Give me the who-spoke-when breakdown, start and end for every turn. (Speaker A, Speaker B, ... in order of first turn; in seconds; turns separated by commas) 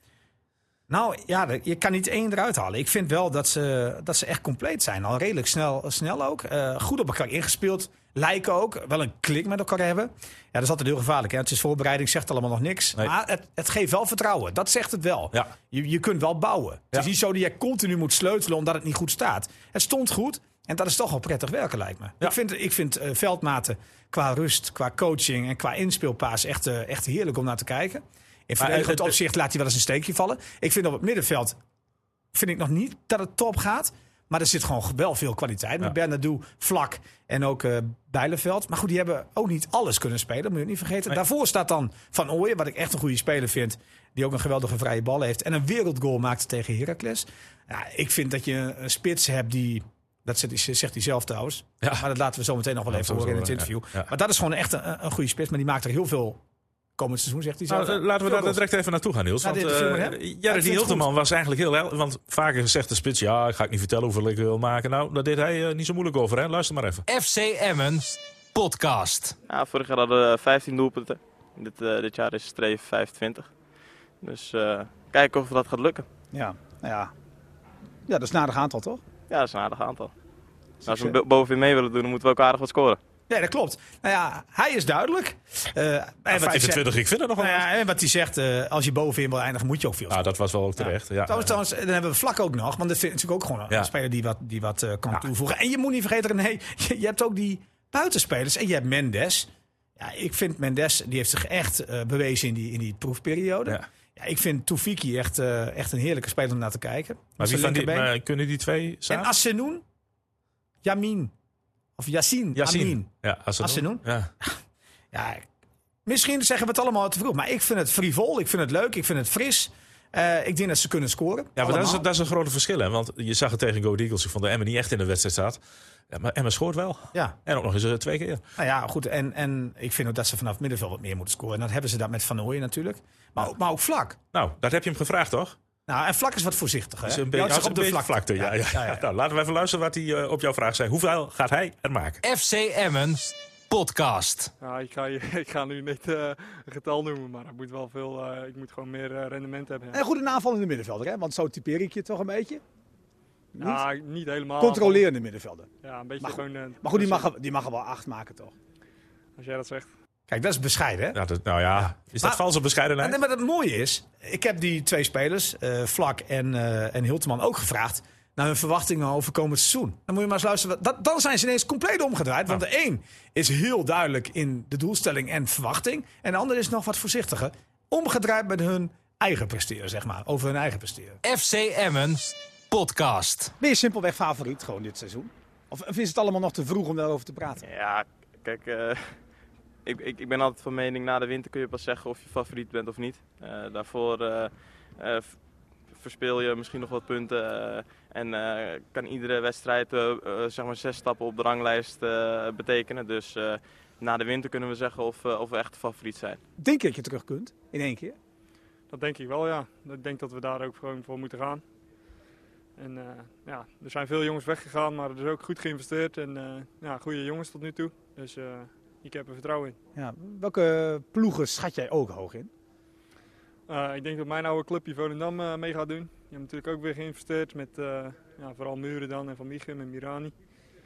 Speaker A: 0.9-31.6, Speaker B: 28.6-29.1, Speaker A: 32.3-56.4, Speaker B: 52.9-54.1, Speaker A: 57.0-58.6, Speaker B: 57.7-67.1, Speaker A: 59.4-61.1, Speaker C: 67.1-69.3, Speaker D: 69.5-73.5, Speaker D: 74.2-76.1, Speaker A: 76.3-77.1, Speaker A: 78.1-79.0, Speaker D: 79.3-80.1, Speaker A: 80.8-81.2, Speaker D: 80.8-83.0, Speaker A: 83.3-90.2, Speaker B: 86.3-87.7, Speaker B: 90.1-91.6, Speaker A: 90.8-108.1, Speaker B: 107.4-109.3, Speaker A: 109.1-109.8, Speaker A: 110.8-111.3, Speaker A: 112.0-114.6, Speaker B: 112.6-114.3, Speaker A: 115.1-115.5, Speaker A: 116.1-122.0, Speaker B: 121.6-128.4, Speaker A: 128.6-134.2, Speaker B: 134.3-135.6, Speaker A: 135.9-139.0, Speaker B: 137.1-142.2, Speaker C: 142.2-144.5, Speaker E: 144.6-150.0, Speaker A: 149.9-152.6, Speaker A: 153.6-153.8, Speaker E: 153.6-155.1, Speaker A: 154.6-155.7, Speaker E: 155.8-157.3, Speaker A: 156.2-158.5, Speaker E: 159.4-159.9, Speaker A: 160.3-161.2, Speaker B: 161.1-163.2, Speaker A: 161.8-162.4, Speaker A: 163.0-181.2, Speaker C: 181.2-183.5, Speaker A: 183.6-187.6, Speaker D: 187.6-189.2, Speaker D: 189.9-195.4, Speaker D: 195.9-206.4, Speaker A: 206.6-208.2, Speaker E: 208.9-211.6, Speaker E: 212.8-219.8, Speaker A: 220.0-222.5, Speaker E: 223.7-230.3